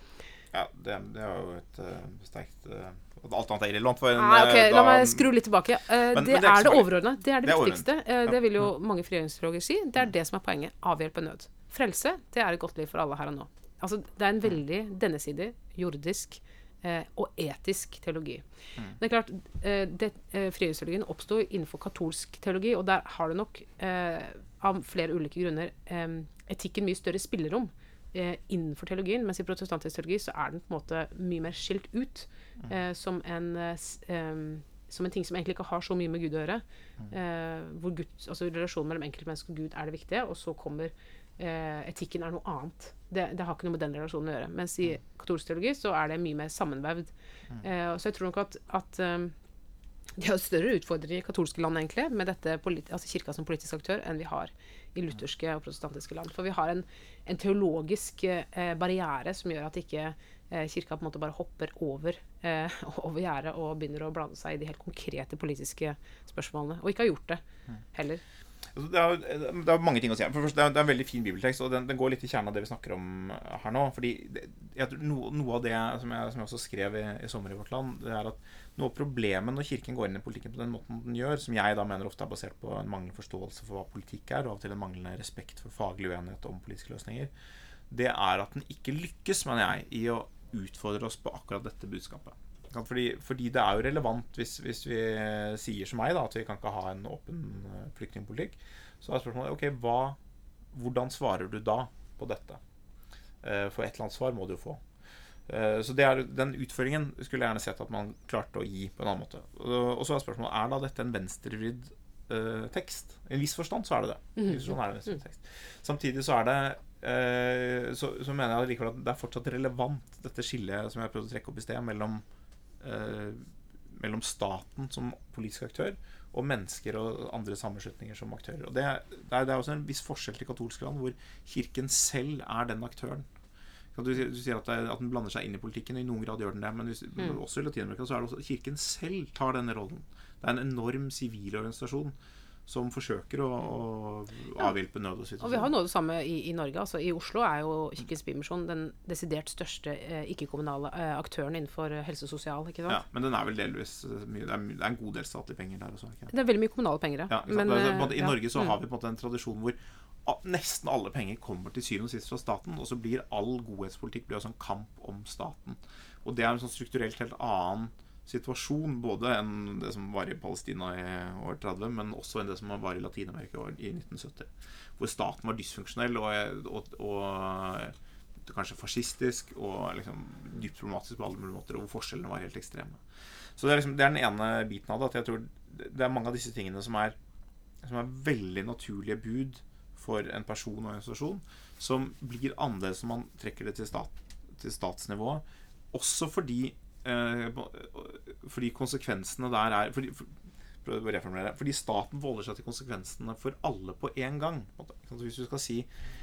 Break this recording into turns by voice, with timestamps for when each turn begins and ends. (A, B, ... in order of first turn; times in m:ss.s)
0:00.5-0:05.4 A
0:04.1-0:18.4 B
0:06.1-0:08.3 A
0:19.0-0:49.4 B
0:50.2-1:07.4 B
1:07.9-1:08.2 B
1:08.7-1:27.3 A
1:27.9-1:40.2 A
1:40.7-1:42.6 A
1:43.4-1:44.8 A
1:45.5-2:02.2 A
2:02.8-2:13.3 A
2:14.0-2:22.2 A
2:22.7-2:25.7 A
2:25.4-2:33.0 B
2:32.9-2:36.3 A
2:36.3-2:38.4 B
2:37.3-3:03.0 A
3:03.6-3:07.2 A
3:07.8-3:25.9 A